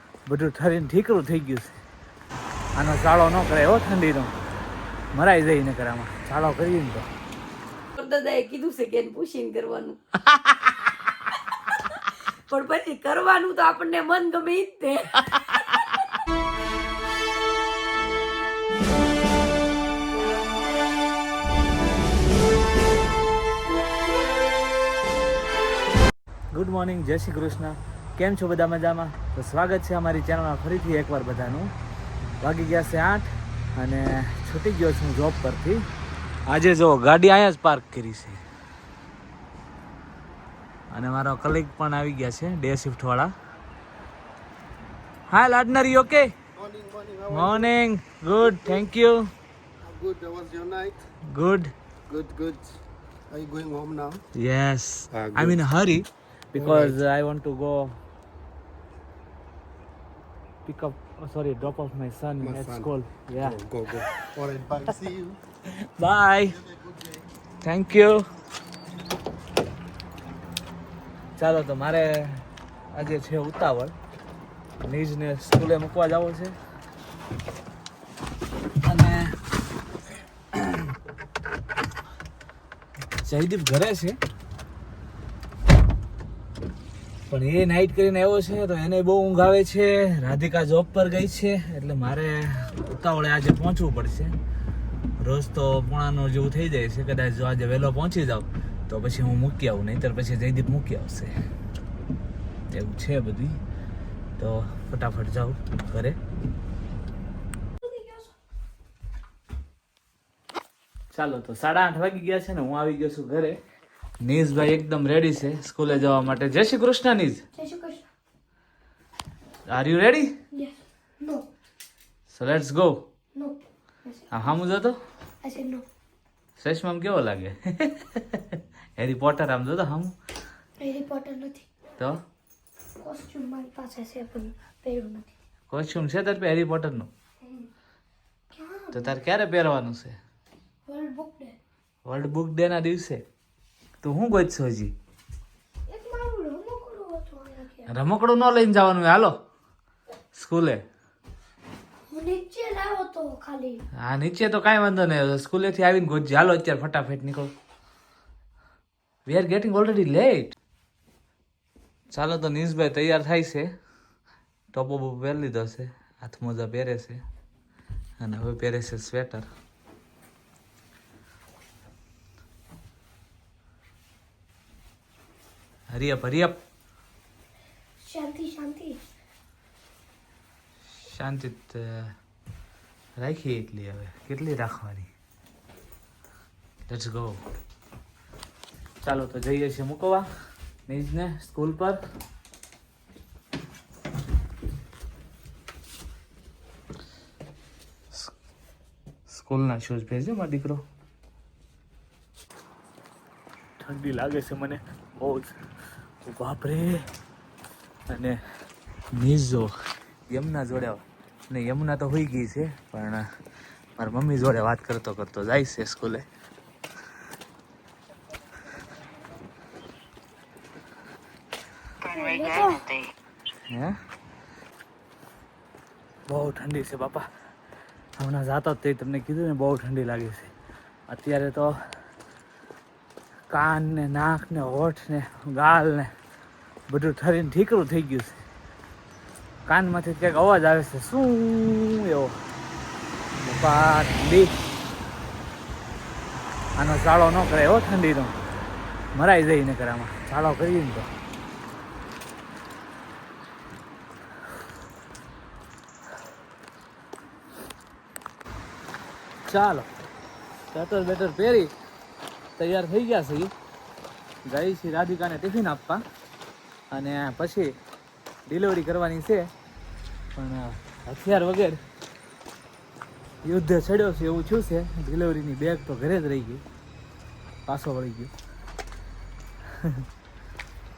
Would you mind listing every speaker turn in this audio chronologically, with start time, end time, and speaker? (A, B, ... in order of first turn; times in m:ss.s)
0:00.3-0:01.8 A
0:02.8-0:04.3 A
0:05.1-0:07.1 A
0:08.0-0:10.0 B
0:11.6-0:15.7 B
0:26.5-0:31.7 A
0:32.4-0:35.9 A
0:36.5-0:38.4 A
0:40.9-0:43.3 A
0:45.3-0:46.3 A
0:46.6-0:47.7 C
0:47.3-0:49.3 A
0:49.8-0:51.0 C
0:51.3-0:51.7 A
0:52.1-0:52.8 C
0:53.3-0:54.2 C
0:54.4-0:58.0 A
0:55.1-0:55.6 C
0:56.6-0:57.0 C
1:00.7-1:03.6 A
1:02.4-1:05.4 C
1:05.7-1:06.6 A
1:06.7-1:07.2 C
1:07.6-1:08.2 A
1:11.4-1:13.9 A
1:14.8-1:16.6 A
1:18.8-1:19.4 A
1:20.5-1:20.9 A
1:23.2-1:24.2 A
1:27.3-1:34.4 A
1:35.2-1:41.3 A
1:42.7-1:43.6 A
1:44.4-1:46.2 A
1:47.8-1:48.3 D
1:51.1-1:53.6 A
1:54.2-1:57.4 A
1:57.5-1:58.1 D
1:59.7-2:00.3 A
2:00.5-2:01.4 D
2:02.3-2:03.0 A
2:03.4-2:04.6 D
2:04.3-2:05.0 A
2:05.4-2:05.8 D
2:06.6-2:10.1 A
2:10.8-2:11.7 D
2:12.0-2:12.2 A
2:13.0-2:15.3 D
2:15.7-2:17.1 A
2:18.5-2:19.2 D
2:18.9-2:20.2 A
2:20.9-2:21.6 D
2:22.0-2:23.2 A
2:24.0-2:24.9 A
2:25.9-2:27.9 D
2:27.9-2:29.3 A
2:30.3-2:30.8 A
2:32.1-2:33.8 D
2:34.0-2:37.5 A
2:39.3-2:40.5 A
2:42.1-2:43.7 A
2:44.7-2:47.2 A
2:48.2-2:49.4 A
2:55.9-2:56.6 A
2:58.0-2:59.0 D
3:00.9-3:02.1 A
3:03.2-3:05.1 A
3:06.9-3:07.4 A
3:09.0-3:10.3 A
3:10.9-3:12.0 A
3:19.3-3:20.8 A
3:23.8-3:25.5 A
3:26.2-3:27.0 A
3:28.1-3:28.4 A
3:29.1-3:29.7 A
3:30.3-3:33.2 A
3:34.0-3:36.2 A
3:42.1-3:42.9 D
3:43.7-3:44.0 A
3:46.3-3:47.3 A
3:48.2-3:50.5 A
3:51.1-3:51.8 A
3:53.5-3:56.1 A
3:56.9-3:58.4 A
3:59.7-4:02.3 A
4:03.4-4:04.5 A
4:06.8-4:08.3 A
4:09.2-4:11.1 A
4:19.5-4:19.9 A
4:20.7-4:21.7 A
4:22.6-4:23.5 A
4:24.5-4:26.0 A
4:26.9-4:27.7 A
4:28.5-4:29.5 A
4:30.4-4:31.8 A
4:33.4-4:36.6 A
4:37.7-4:38.3 A
4:39.6-4:40.1 A